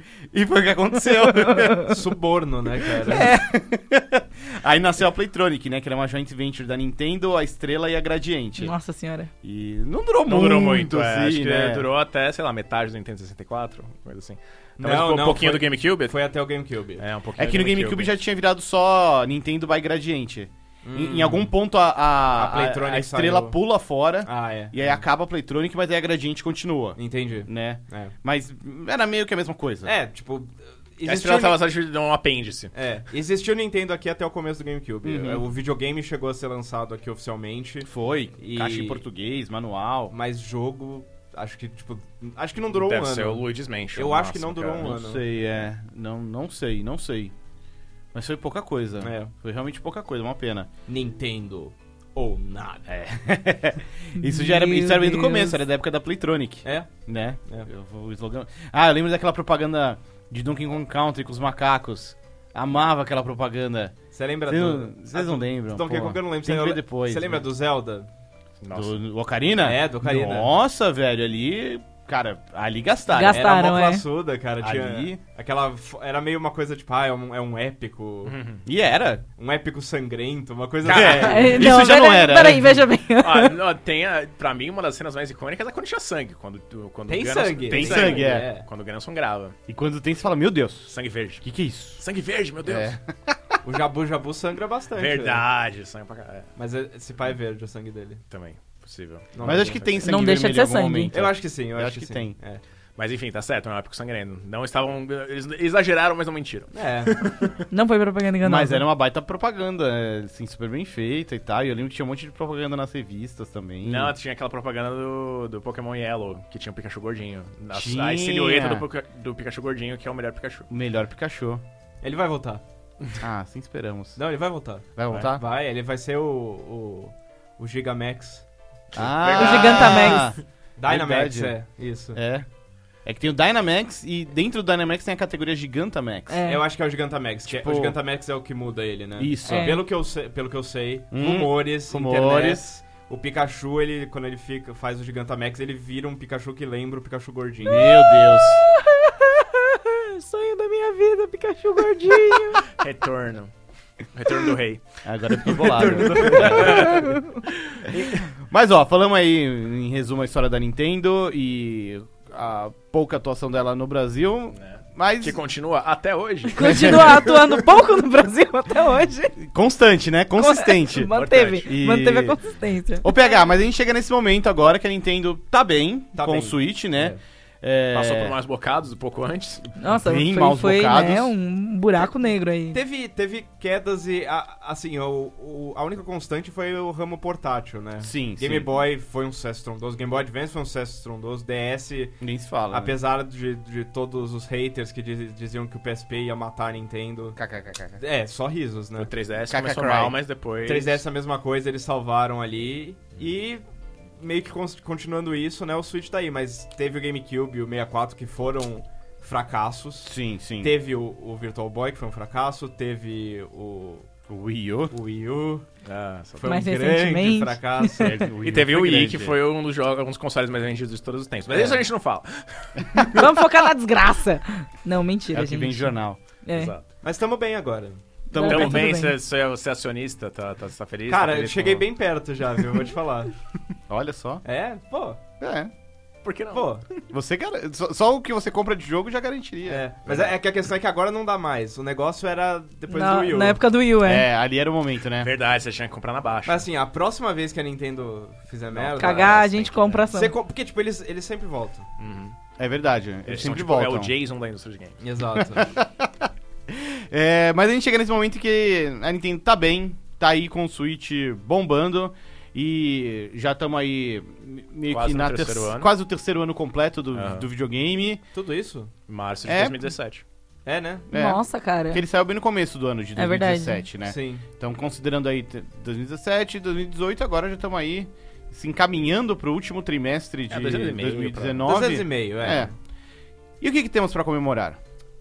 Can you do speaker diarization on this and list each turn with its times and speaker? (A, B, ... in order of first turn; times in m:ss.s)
0:00.3-0:02.0 A
0:01.2-0:01.9 B
0:01.9-0:03.3 C
0:02.8-0:08.7 A
0:03.1-0:03.5 B
0:08.6-0:09.3 B
0:09.4-0:11.9 A
0:10.3-0:16.2 D
0:14.8-0:17.0 C
0:17.0-0:18.1 D
0:17.4-0:29.9 A
0:20.8-0:21.5 C
0:22.3-0:23.6 C
0:24.2-0:25.0 C
0:27.0-0:28.1 C
0:29.8-0:31.6 C
0:31.0-0:32.7 D
0:32.7-0:39.0 C
0:35.0-0:35.4 A
0:37.8-0:40.1 A
0:40.1-0:45.2 C
0:42.7-0:45.0 D
0:44.8-0:47.3 A
0:48.1-0:50.7 A
0:49.0-0:49.3 C
0:50.9-0:52.9 C
0:52.9-1:04.0 A
0:54.2-0:55.6 B
0:56.6-0:56.9 C
1:04.1-1:08.1 C
1:04.5-1:07.4 A
1:08.6-1:09.0 D
1:08.7-1:13.5 A
1:09.6-1:10.5 C
1:13.1-1:14.0 B
1:13.3-1:18.4 C
1:14.6-1:15.2 A
1:18.2-1:18.6 D
1:18.6-1:19.2 A
1:19.4-1:21.7 C
1:20.8-1:21.7 D
1:20.9-1:22.8 A
1:21.2-1:23.6 B
1:23.2-1:29.6 D
1:27.1-1:28.7 C
1:27.7-1:28.5 A
1:29.7-1:32.0 A
1:30.9-1:31.4 D
1:32.0-1:33.0 D
1:32.6-1:33.6 A
1:33.6-1:35.4 C
1:35.0-1:36.5 D
1:36.6-1:38.2 C
1:38.3-1:40.0 D
1:39.4-1:39.9 C
1:39.4-1:42.4 A
1:40.0-1:41.1 B
1:41.1-1:42.6 C
1:43.0-1:47.6 D
1:46.7-1:47.1 C
1:47.7-1:48.8 B
1:48.4-1:54.1 A
1:53.8-2:00.7 D
1:57.7-1:58.8 A
2:00.7-2:01.6 A
2:02.0-2:02.6 C
2:03.2-2:04.2 A
2:04.2-2:10.2 C
2:05.0-2:05.4 A
2:09.0-2:11.6 A
2:09.2-2:09.6 D
2:09.4-2:10.3 B
2:10.8-2:12.2 C
2:12.1-2:12.5 A
2:13.0-2:16.4 A
2:16.3-2:16.6 B
2:16.4-2:27.9 C
2:17.5-2:18.0 A
2:19.2-2:19.8 A
2:19.5-2:19.8 B
2:21.1-2:22.7 A
2:27.6-2:28.6 A
2:27.8-2:32.7 B
2:32.7-2:33.5 D
2:34.1-2:34.8 D
2:35.0-2:37.0 A
2:35.4-2:38.3 D
2:35.8-2:36.6 C
2:36.8-2:37.2 B
2:38.4-2:45.4 A
2:44.6-2:47.3 D
2:46.5-2:49.4 B
2:46.7-2:47.1 A
2:49.4-2:52.4 A
2:50.4-2:53.1 B
2:51.0-2:51.7 D
2:53.0-2:58.4 A
2:56.2-2:57.2 C
2:57.9-2:59.8 D
2:59.8-3:02.8 B
3:00.0-3:01.4 A
3:02.7-3:12.2 C
3:08.0-3:08.7 A
3:12.2-3:13.0 A
3:12.7-3:17.4 C
3:17.4-3:18.0 A
3:18.0-3:19.1 C
3:19.0-3:21.0 D
3:19.5-3:20.2 A
3:20.6-3:23.6 C
3:24.2-3:34.1 C
3:30.0-3:30.7 A
3:34.3-3:34.9 A
3:34.9-3:35.7 C
3:35.8-3:36.6 D
3:36.4-3:38.2 C
3:36.4-3:38.2 B
3:38.0-3:39.4 A
3:38.2-3:43.5 D
3:41.5-3:41.8 C
3:43.0-3:45.9 B
3:45.3-3:46.2 A
3:46.4-3:46.7 B
3:46.5-3:46.9 D
3:47.0-3:48.0 C
3:48.3-3:48.9 A
3:48.3-3:49.1 B
3:48.4-3:51.9 D
3:51.1-3:53.3 C
3:53.9-3:54.4 A
3:54.4-3:55.2 C
3:55.4-3:55.7 A
3:56.2-3:56.7 D
3:56.5-3:56.8 C
3:57.1-4:00.3 A
3:59.7-4:03.6 C
4:02.9-4:04.2 B
4:04.0-4:05.3 A
4:05.2-4:06.6 D
4:06.5-4:09.5 C
4:08.7-4:10.0 D
4:09.0-4:10.3 B
4:10.1-4:11.9 C
4:12.0-4:12.4 D
4:12.6-4:14.1 A
4:13.3-4:15.0 D
4:15.0-4:15.7 C
4:15.4-4:28.2 A
4:24.9-4:25.9 D
4:27.1-4:27.5 D
4:28.3-4:28.9 C
4:29.1-4:30.2 D
4:29.4-4:29.9 A
4:30.6-4:31.1 C
4:31.1-4:42.7 A
4:31.1-4:32.0 B
4:33.2-4:33.8 B
4:34.0-4:34.4 C
4:40.5-4:41.8 D
4:41.6-4:42.7 C
4:43.6-4:44.8 A